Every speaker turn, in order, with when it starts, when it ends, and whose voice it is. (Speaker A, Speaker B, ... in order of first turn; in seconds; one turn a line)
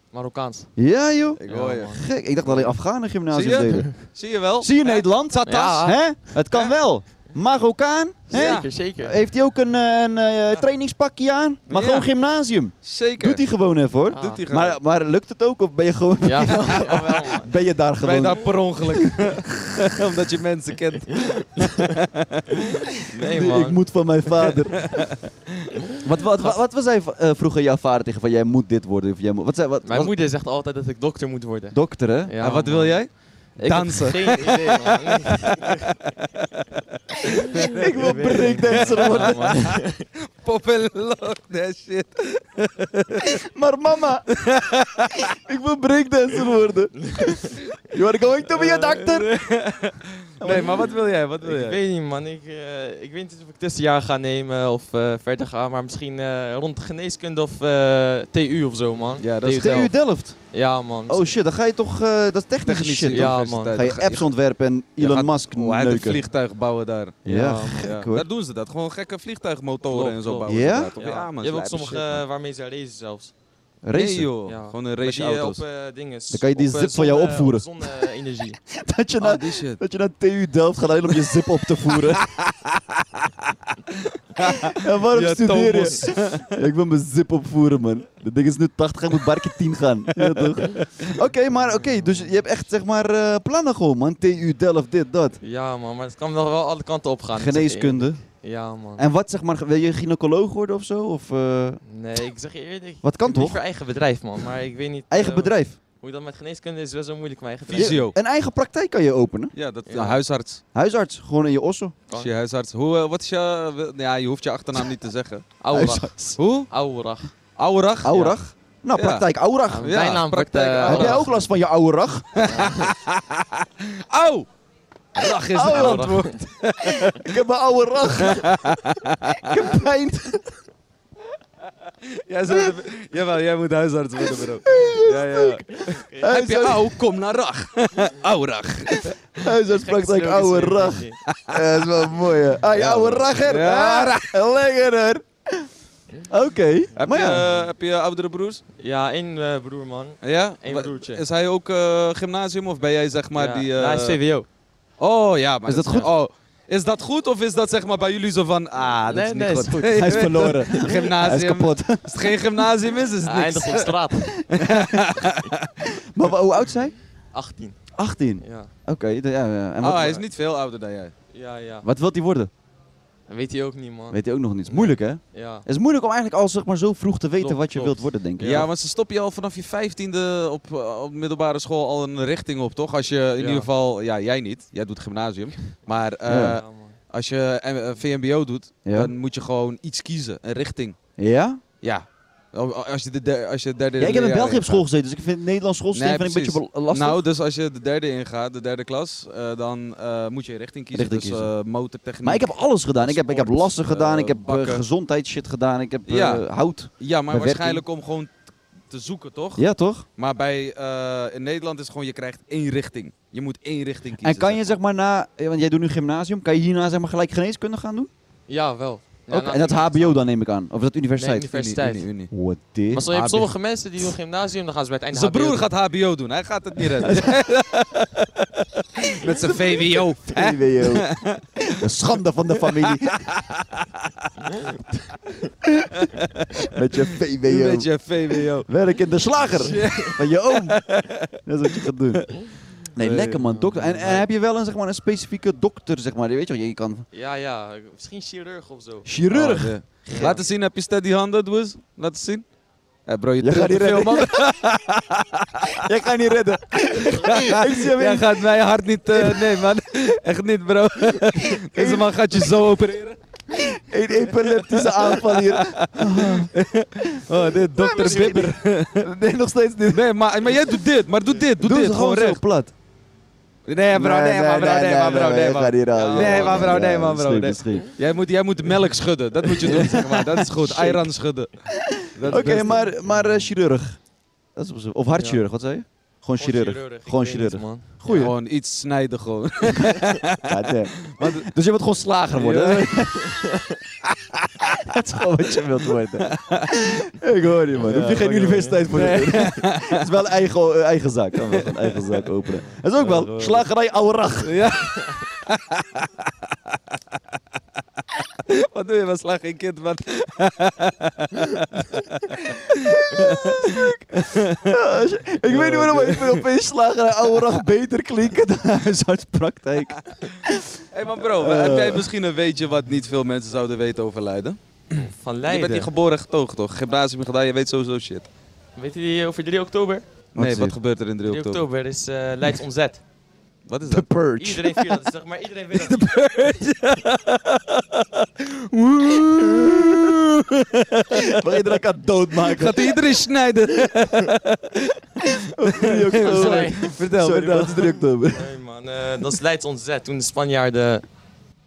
Speaker A: 0.1-0.7
Speaker B: 0.8-4.0
Speaker C: 1.4-1.9
Speaker A: 1.5-2.7
Speaker C: 3.3-4.7
Speaker B: 4.6-19.1
Speaker A: 4.8-6.3
Speaker A: 8.3-9.2
Speaker C: 8.3-8.7
Speaker C: 11.7-12.1
Speaker C: 12.8-13.4
Speaker A: 14.1-14.5
Speaker C: 14.2-14.8
Speaker A: 16.2-17.5
Speaker C: 18.0-22.6
Speaker A: 21.1-21.9
Speaker A: 22.7-23.8
Speaker B: 23.3-25.0
Speaker C: 24.8-25.1
Speaker B: 26.0-30.1
Speaker A: 29.8-35.7
Speaker B: 31.7-32.3
Speaker C: 32.4-35.7
Speaker B: 37.6-39.8
Speaker A: 37.9-40.0
Speaker C: 38.7-39.6
Speaker C: 40.4-43.3
Speaker B: 43.2-44.2
Speaker C: 44.4-45.2
Speaker B: 45.3-49.3
Speaker A: 47.0-47.5
Speaker C: 48.8-51.8
Speaker B: 50.4-50.9
Speaker A: 50.5-59.9
Speaker C: 59.2-59.9
Speaker B: 59.4-60.4
Speaker A: 60.5-61.4
Speaker B: 61.1-66.2
Speaker C: 62.6-64.3
Speaker A: 63.1-63.8
Speaker C: 65.0-72.2
Speaker B: 67.2-68.2
Speaker A: 67.3-68.0
Speaker A: 69.9-73.3
Speaker B: 70.5-70.9
Speaker B: 73.8-74.3
Speaker C: 73.9-75.6
Speaker A: 74.5-78.6
Speaker B: 76.3-77.7
Speaker B: 78.7-82.3
Speaker C: 79.2-79.8
Speaker C: 84.4-86.4
Speaker B: 84.7-95.4
Speaker A: 91.7-92.3
Speaker A: 95.4-99.0
Speaker B: 97.3-98.2
Speaker B: 99.0-101.8
Speaker A: 101.9-108.0
Speaker B: 103.0-103.6
Speaker B: 105.1-105.8
Speaker C: 107.7-108.1
Speaker B: 107.7-109.5
Speaker C: 109.5-110.6
Speaker A: 109.9-110.2
Speaker B: 110.7-111.9
Speaker C: 112.1-115.5
Speaker A: 115.6-117.3
Speaker B: 115.7-116.4
Speaker C: 116.4-116.7
Speaker C: 117.6-118.3
Speaker B: 118.0-120.0
Speaker C: 119.0-119.2
Speaker A: 119.7-121.4
Speaker C: 119.8-121.2
Speaker B: 120.8-122.7
Speaker C: 122.4-124.5
Speaker A: 122.5-122.9
Speaker C: 125.1-127.1
Speaker B: 125.5-128.8
Speaker A: 125.6-126.4
Speaker C: 128.2-129.5
Speaker B: 129.4-130.5
Speaker C: 132.2-139.1
Speaker B: 134.4-135.7
Speaker B: 136.2-137.0
Speaker B: 138.9-145.7
Speaker A: 139.7-141.2
Speaker C: 141.3-141.6
Speaker C: 142.7-144.3
Speaker B: 146.3-147.4
Speaker A: 146.9-147.7
Speaker C: 147.0-148.6
Speaker A: 148.8-151.2
Speaker C: 150.2-154.2
Speaker A: 153.3-154.5
Speaker C: 155.0-163.9
Speaker B: 155.7-156.1
Speaker A: 159.1-160.9
Speaker B: 159.8-162.4
Speaker A: 163.2-164.4
Speaker B: 164.5-165.0
Speaker C: 164.5-165.6
Speaker B: 166.1-166.9
Speaker A: 167.3-167.9
Speaker B: 168.0-170.2
Speaker A: 168.4-168.7
Speaker C: 169.8-171.1
Speaker A: 171.3-171.8
Speaker B: 171.8-172.5
Speaker A: 173.3-175.7
Speaker B: 174.1-178.7
Speaker A: 177.4-178.7
Speaker C: 178.4-190.9
Speaker A: 183.4-183.7
Speaker B: 186.2-186.6
Speaker A: 186.3-187.0
Speaker B: 188.8-189.1
Speaker B: 191.2-191.6
Speaker C: 191.8-194.8
Speaker B: 194.0-197.2
Speaker C: 195.9-204.8
Speaker B: 200.9-201.5
Speaker B: 202.2-207.8
Speaker C: 206.1-206.4
Speaker C: 207.0-209.6
Speaker B: 209.6-210.1
Speaker C: 210.2-214.6
Speaker B: 214.2-218.1
Speaker A: 218.5-220.2
Speaker B: 219.3-221.5
Speaker A: 221.2-222.1
Speaker C: 221.5-222.3
Speaker B: 222.3-223.4
Speaker A: 222.9-225.7
Speaker C: 225.1-231.4
Speaker B: 227.0-227.3
Speaker B: 230.2-233.2
Speaker C: 232.8-234.3
Speaker C: 236.2-236.7
Speaker B: 236.7-238.1
Speaker C: 237.5-238.7
Speaker B: 238.7-240.8
Speaker C: 239.6-241.3
Speaker A: 239.6-240.1
Speaker B: 241.4-242.4
Speaker B: 242.9-247.1
Speaker C: 243.0-244.2
Speaker A: 247.1-249.1
Speaker B: 249.0-250.4
Speaker C: 249.3-252.4
Speaker A: 250.1-250.4
Speaker C: 253.0-255.8
Speaker B: 253.4-254.5
Speaker B: 255.7-258.4
Speaker C: 257.2-263.2
Speaker B: 259.1-259.7
Speaker B: 261.2-262.5
Speaker B: 263.5-266.5
Speaker C: 264.3-269.0
Speaker B: 267.3-270.1
Speaker C: 269.9-272.4
Speaker B: 271.6-272.7
Speaker C: 273.7-281.5
Speaker B: 273.9-277.9
Speaker A: 275.9-276.8
Speaker B: 279.5-281.1
Speaker B: 281.9-284.0
Speaker C: 282.1-282.8
Speaker A: 282.3-283.3
Speaker B: 284.6-288.3
Speaker A: 285.2-285.4
Speaker A: 286.4-287.9
Speaker C: 288.0-291.4
Speaker B: 290.4-293.4
Speaker C: 292.4-292.9
Speaker A: 293.3-293.6
Speaker B: 294.6-304.6
Speaker C: 296.2-296.7
Speaker C: 297.8-300.1
Speaker A: 298.3-298.8
Speaker C: 301.5-302.1
Speaker C: 303.0-303.6
Speaker C: 304.4-306.8
Speaker C: 308.4-314.6
Speaker B: 312.4-322.1
Speaker C: 315.5-316.4
Speaker C: 320.9-328.3
Speaker A: 324.9-325.9
Speaker A: 328.8-330.0
Speaker B: 330.3-330.8
Speaker C: 330.3-331.6
Speaker A: 331.2-333.0
Speaker C: 333.7-334.1
Speaker B: 333.9-335.0
Speaker A: 334.4-336.1
Speaker C: 336.0-338.0
Speaker B: 338.8-340.2
Speaker C: 339.0-340.2
Speaker C: 340.9-341.3
Speaker B: 341.3-342.9
Speaker C: 342.4-344.9
Speaker B: 345.4-348.5
Speaker C: 345.8-347.9
Speaker A: 346.1-346.9
Speaker A: 348.3-351.0